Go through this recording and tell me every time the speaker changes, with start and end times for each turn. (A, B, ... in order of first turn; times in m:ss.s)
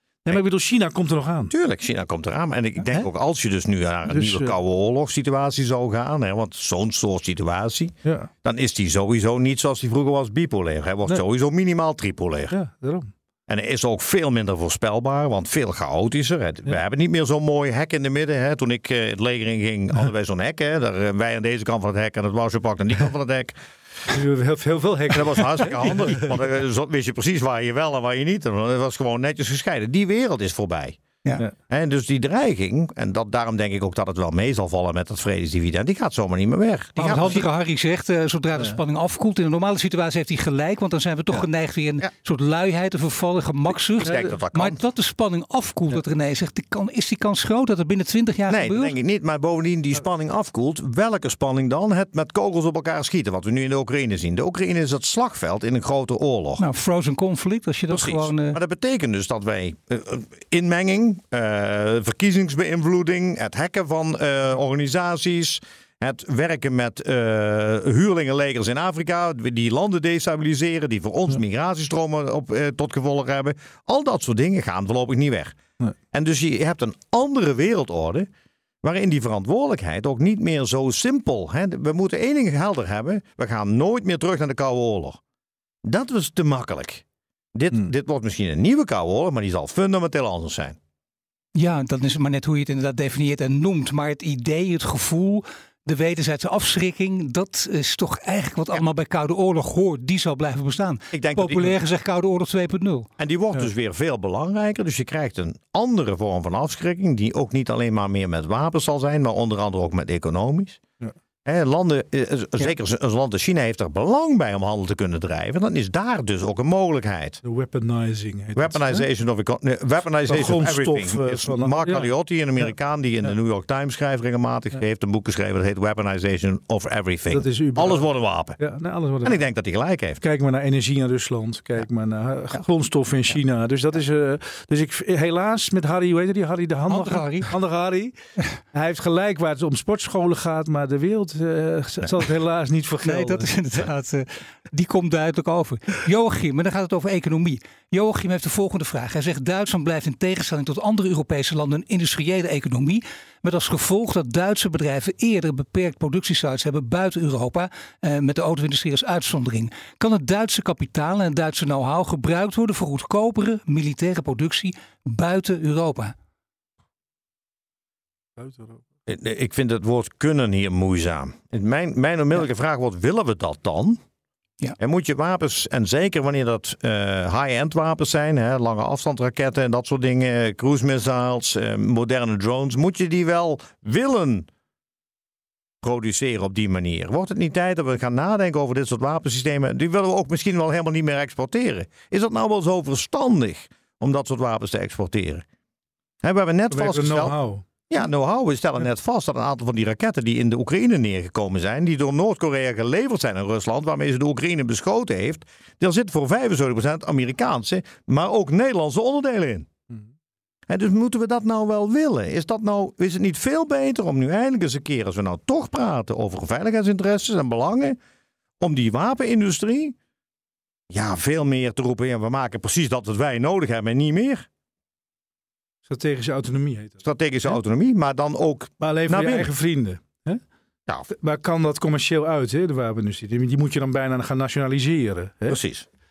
0:00.3-0:01.5 A
0:01.5-0:12.6 B
0:04.1-0:04.5 A
0:08.0-0:08.3 A
0:12.5-0:13.1 A
0:13.5-0:23.6 B
0:24.1-0:26.3 A
0:25.1-0:31.0 B
0:31.7-0:37.5 B
0:37.0-0:48.9 C
0:44.0-0:44.8 B
0:48.5-0:56.6 B
0:56.6-0:58.6 C
0:57.9-1:15.6 B
1:16.1-1:18.3 B
1:18.8-1:25.2 B
1:25.8-1:27.0 B
1:27.6-1:30.8 B
1:31.6-1:43.1 C
1:41.1-1:41.8 B
1:43.2-1:50.8 B
1:51.4-1:57.4 B
1:57.4-1:59.1 A
1:58.6-2:08.6 B
2:00.3-2:02.1 A
2:07.3-2:08.1 A
2:08.6-2:09.4 A
2:09.2-2:10.2 B
2:10.2-2:18.1 A
2:16.9-2:17.5 C
2:18.7-2:23.5 A
2:23.0-2:46.2 C
2:48.4-2:48.8 A
2:49.1-2:54.0 B
2:54.8-3:04.5 B
3:05.8-3:15.4 B
3:16.2-3:17.4 B
3:16.7-3:17.6 A
3:17.9-3:29.7 B
3:30.7-3:38.0 B
3:38.6-3:40.0 B
3:40.9-3:44.5 B
3:45.9-3:47.6 A
3:47.0-3:49.5 B
3:48.8-3:50.4 A
3:51.1-3:55.6 A
3:55.5-3:55.9 B